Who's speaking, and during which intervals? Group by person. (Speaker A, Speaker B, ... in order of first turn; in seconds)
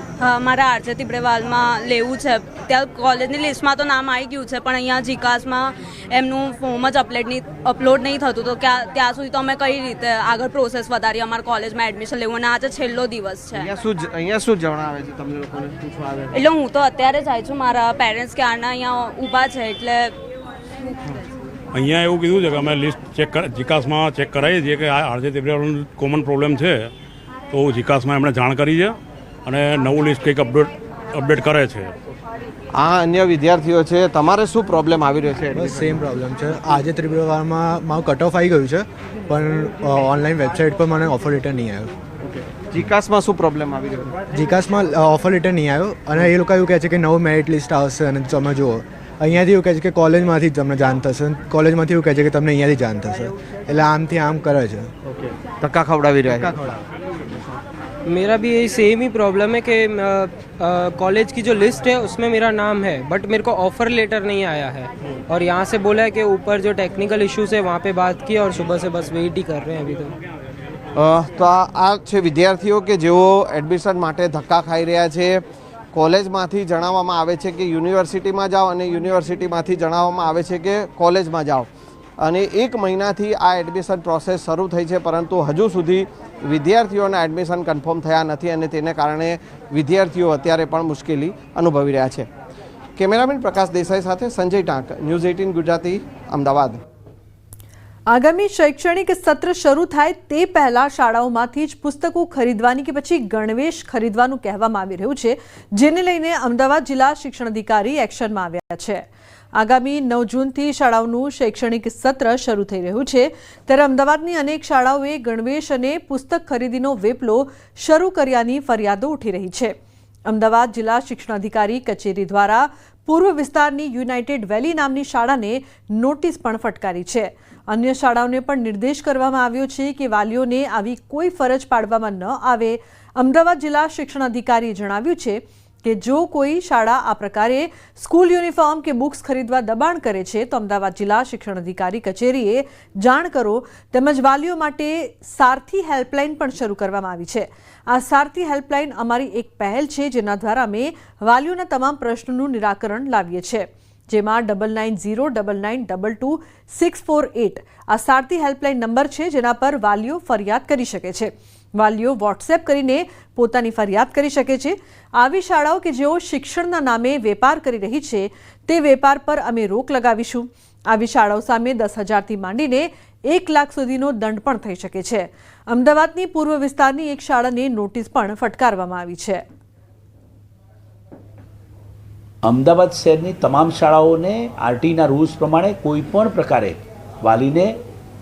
Speaker A: 0.2-13.7, 16.3-20.1
Speaker B: 13.5-16.4, 32.8-35.9, 42.7-44.2, 55.6-56.7, 70.9-75.4, 75.9-81.7, 82.2-92.3, 93.0-96.8
Speaker C: 21.7-26.9, 27.5-28.9, 29.5-31.9
Speaker D: 35.5-41.9, 44.3-54.9
Speaker E: 58.0-70.1
Speaker F: 98.1-109.0, 109.6-119.7, 120.3-179.4
Speaker G: 182.4-187.8